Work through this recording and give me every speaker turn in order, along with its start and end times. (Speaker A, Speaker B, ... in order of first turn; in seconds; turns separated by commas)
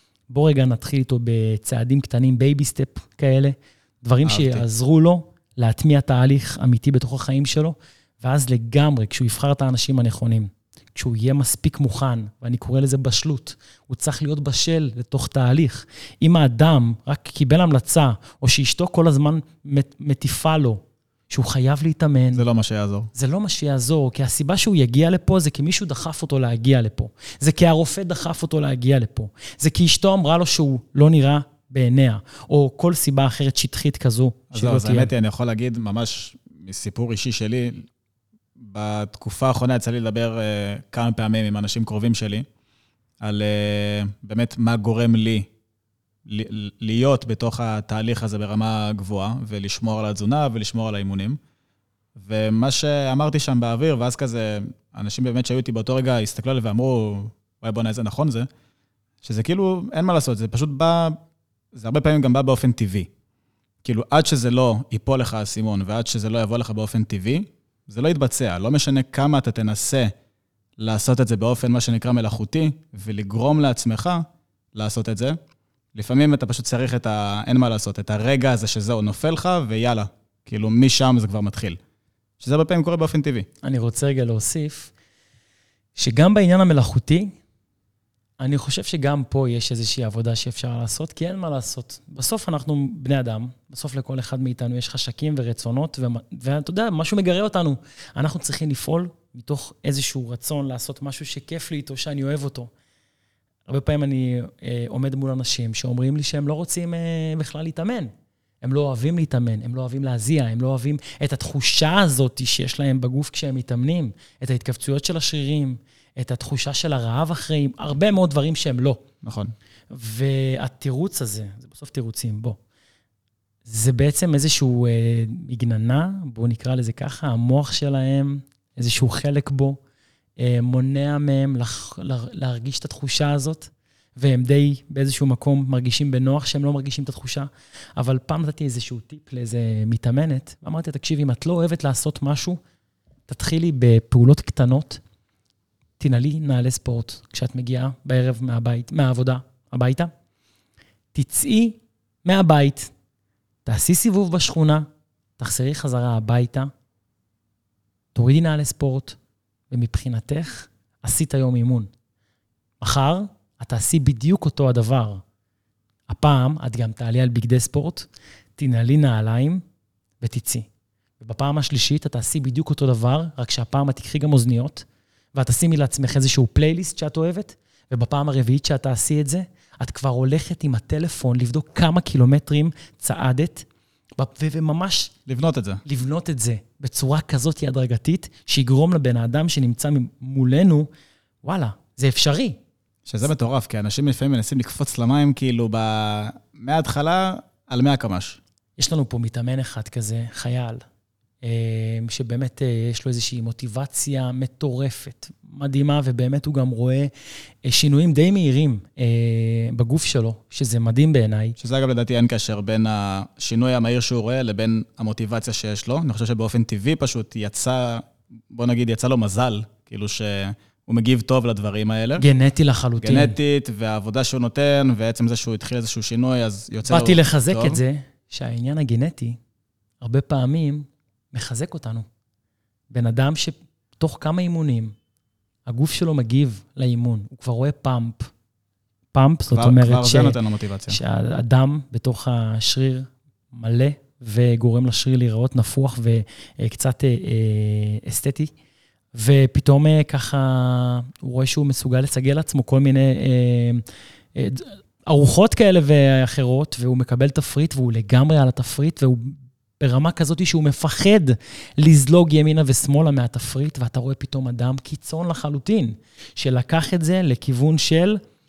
Speaker A: 0.3-22.4, Speaker B: 4.2-4.7, Speaker B: 22.3-23.1, Speaker A: 23.1-35.1, Speaker B: 34.5-37.9, Speaker B: 38.6-42.5, Speaker B: 43.2-45.5, Speaker B: 46.2-51.4, Speaker B: 52.1-58.5, Speaker B: 59.2-61.2, Speaker B: 61.7-63.1, Speaker B: 63.8-70.1, Speaker B: 70.8-75.4, Speaker B: 75.9-81.8, Speaker B: 82.4-83.5, Speaker A: 83.6-84.9, Speaker A: 86.0-87.3, Speaker A: 88.4-102.7, Speaker A: 103.7-119.0, Speaker B: 119.2-119.5, Speaker A: 119.9-122.6, Speaker A: 123.6-129.8, Speaker A: 130.4-142.6, Speaker A: 143.3-145.0, Speaker A: 146.0-150.1, Speaker A: 151.1-152.9, Speaker A: 153.6-154.8, Speaker A: 155.4-156.7, Speaker A: 158.1-159.2, Speaker A: 159.7-161.9, Speaker A: 162.8-165.2, Speaker A: 166.1-169.6, Speaker A: 170.2-170.7, Speaker A: 171.2-183.7, Speaker A: 184.2-185.1, Speaker B: 185.3-185.8, Speaker A: 185.8-190.9, Speaker A: 191.4-192.6, Speaker B: 193.1-198.4, Speaker A: 198.8-200.8, Speaker A: 201.4-207.1, Speaker A: 207.6-211.6, Speaker B: 211.6-222.2, Speaker A: 222.2-223.4, Speaker B: 223.0-227.8, Speaker A: 226.8-229.4, Speaker A: 230.0-232.1, Speaker A: 232.9-234.9, Speaker A: 235.7-238.3, Speaker A: 239.1-248.5, Speaker B: 239.5-241.0, Speaker A: 249.1-253.8, Speaker A: 254.3-268.2